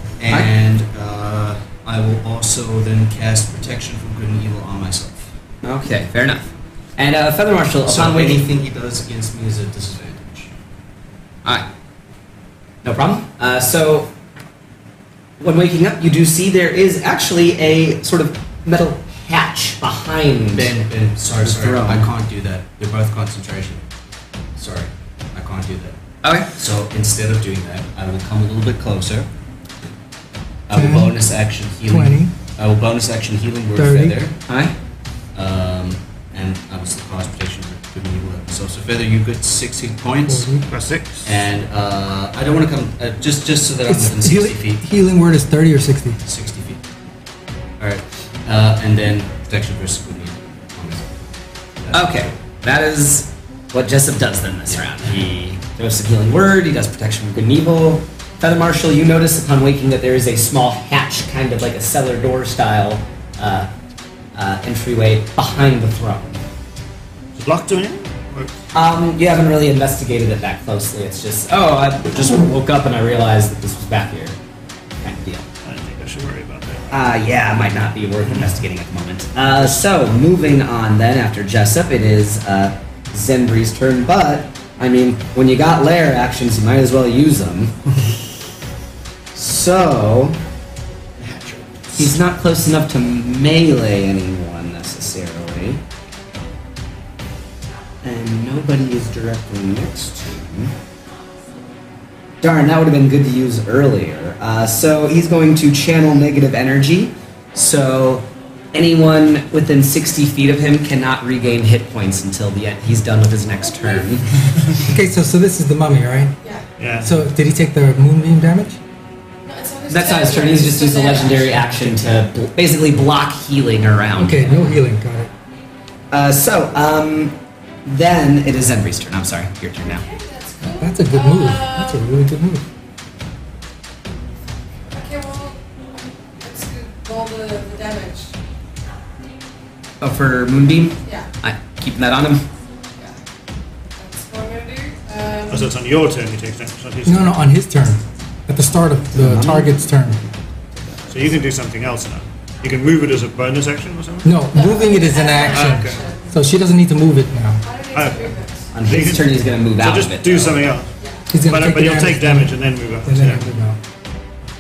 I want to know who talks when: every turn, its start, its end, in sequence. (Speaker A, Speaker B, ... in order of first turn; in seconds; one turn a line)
Speaker A: 0.2-5.3
Speaker B: 5.6-8.4
Speaker A: 7.9-10.5
Speaker B: 12.8-14.1
Speaker B: 15.4-20.7
Speaker A: 20.5-23.8
Speaker B: 21.4-22.1
Speaker A: 24.6-26.0
Speaker B: 26.2-26.5
Speaker A: 26.5-29.3
Speaker A: 30.7-34.4
Speaker C: 30.7-31.3
Speaker C: 31.9-32.3
Speaker C: 33.8-34.2
Speaker B: 34.5-34.7
Speaker A: 35.4-40.5
Speaker C: 40.2-40.7
Speaker D: 40.7-41.3
Speaker A: 41.2-44.8
Speaker C: 43.9-46.2
Speaker A: 46.2-46.8
Speaker A: 47.8-51.3
Speaker A: 51.8-52.3
Speaker B: 51.9-63.7
Speaker A: 54.9-55.1
Speaker B: 64.3-66.4
Speaker D: 67.3-68.5
Speaker B: 68.7-74.3
Speaker B: 75.0-75.5
Speaker D: 75.6-76.9
Speaker B: 76.9-87.8
Speaker B: 89.3-90.4
Speaker D: 91.2-91.6
Speaker B: 92.0-95.8
Speaker B: 98.0-100.7
Speaker B: 102.4-114.3
Speaker E: 113.6-114.1
Speaker C: 114.8-116.4
Speaker D: 116.8-117.1
Speaker C: 117.0-118.8
Speaker E: 119.5-121.9
Speaker B: 119.9-124.8
Speaker C: 124.2-125.3
Speaker B: 126.1-130.1
Speaker E: 129.8-132.0
Speaker C: 130.7-132.7
Speaker E: 134.9-138.3
Speaker B: 140.0-142.5
Speaker E: 144.0-145.7
Speaker D: 145.5-147.3
Speaker C: 147.1-150.2
Speaker B: 149.2-149.7
Speaker D: 151.1-154.4
Speaker C: 154.2-157.6
Speaker E: 154.5-156.3
Speaker D: 155.5-156.0
Speaker E: 157.6-158.7
Speaker D: 157.9-160.9
Speaker B: 158.7-160.7
Speaker E: 161.0-161.3
Speaker C: 161.3-163.8
Speaker D: 161.4-163.4